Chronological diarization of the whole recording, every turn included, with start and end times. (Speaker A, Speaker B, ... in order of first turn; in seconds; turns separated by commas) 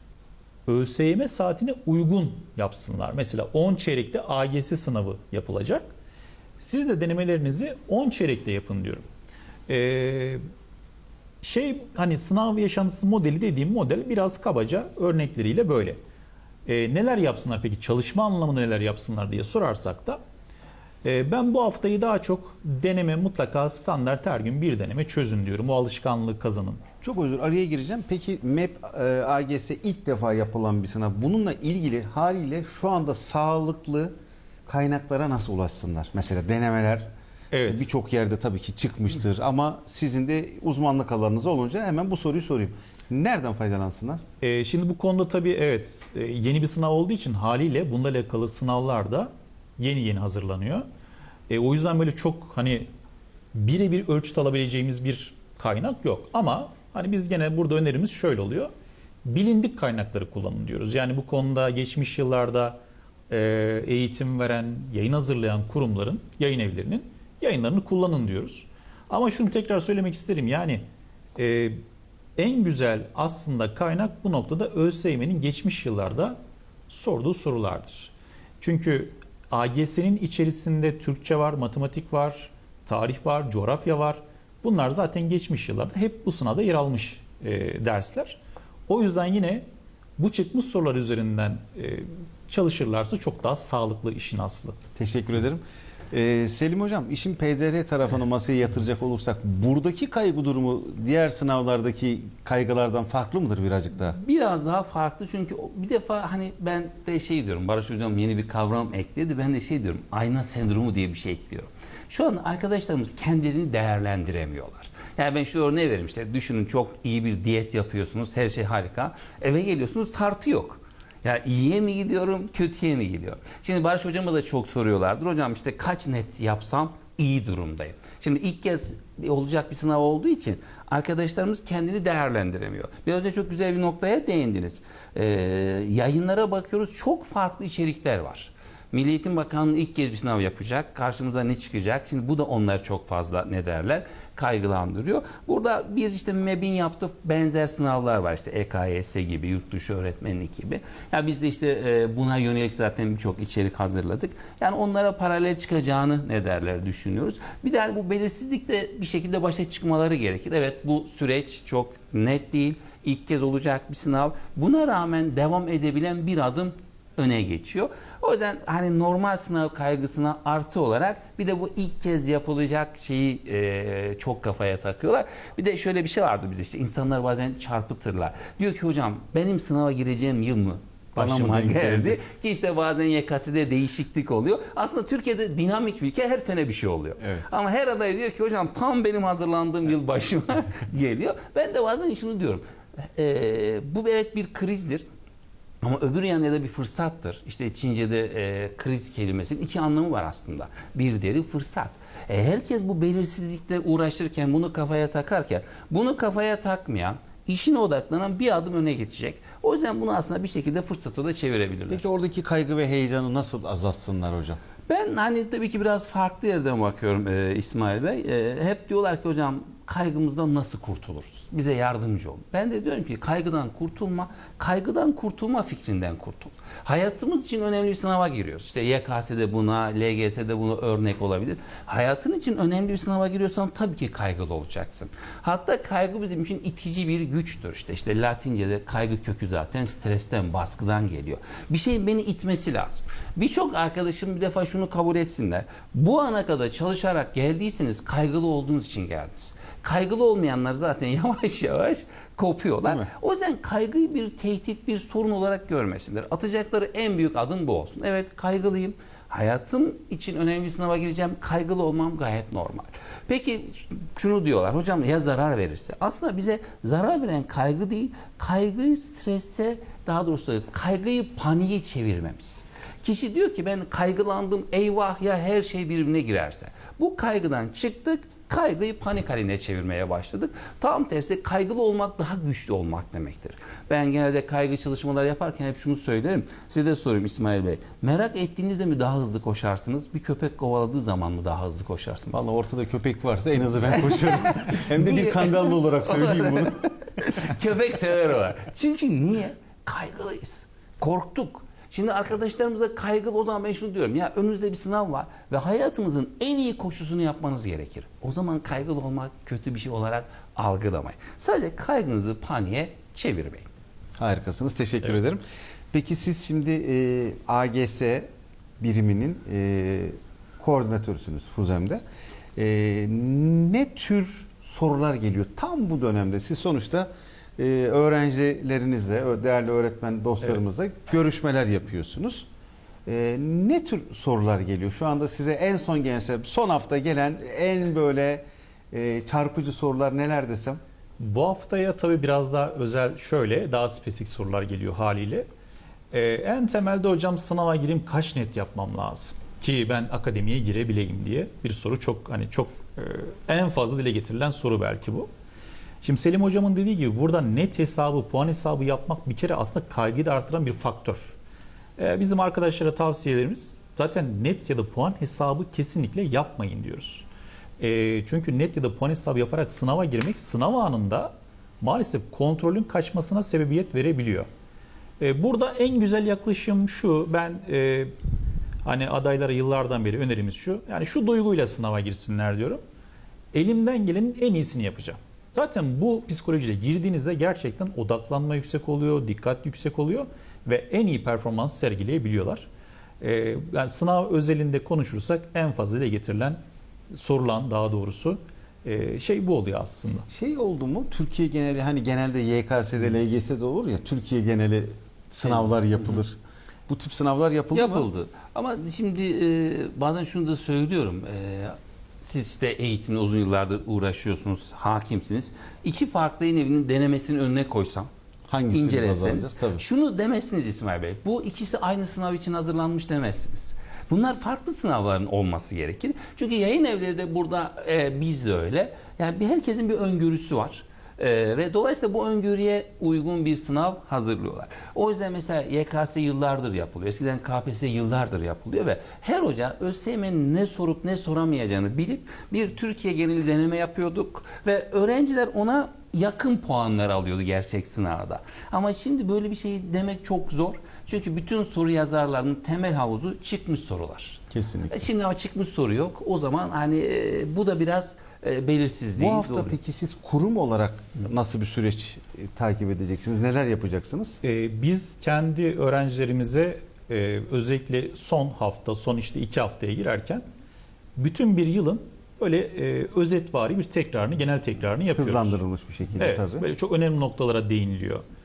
Speaker A: 0.7-5.9, Speaker A: 6.6-9.1, Speaker A: 9.7-10.4, Speaker A: 11.4-16.0, Speaker A: 16.7-20.2, Speaker A: 21.0-26.8, Speaker B: 27.0-34.1, Speaker B: 34.7-37.1, Speaker A: 37.5-37.9, Speaker B: 37.7-44.2, Speaker A: 44.4-50.9, Speaker A: 51.5-52.9, Speaker A: 53.5-58.7, Speaker A: 59.2-62.8, Speaker A: 63.3-70.8, Speaker A: 71.4-71.8, Speaker A: 72.4-76.4, Speaker A: 76.9-89.6, Speaker A: 90.2-94.8, Speaker B: 95.0-104.2, Speaker C: 104.2-195.1, Speaker B: 181.2-182.2, Speaker C: 195.8-212.0, Speaker B: 211.9-214.6, Speaker C: 214.9-292.4, Speaker B: 292.3-296.9, Speaker C: 294.0-313.7, Speaker B: 314.2-315.4, Speaker B: 315.9-322.0, Speaker B: 322.6-332.5, Speaker B: 333.1-340.8, Speaker A: 341.2-345.5, Speaker A: 346.1-355.3, Speaker A: 356.0-361.4, Speaker A: 362.0-367.3, Speaker A: 367.8-374.5, Speaker A: 375.2-378.1, Speaker A: 378.8-382.8, Speaker A: 383.5-392.7, Speaker A: 393.2-396.6, Speaker A: 397.1-400.3, Speaker B: 400.3-406.4, Speaker B: 406.9-408.1, Speaker C: 407.7-418.1, Speaker B: 418.5-419.8, Speaker C: 418.7-459.8, Speaker B: 454.5-455.0, Speaker B: 459.2-464.4, Speaker A: 464.4-470.4, Speaker A: 471.2-475.6, Speaker B: 475.2-476.6, Speaker A: 476.2-478.2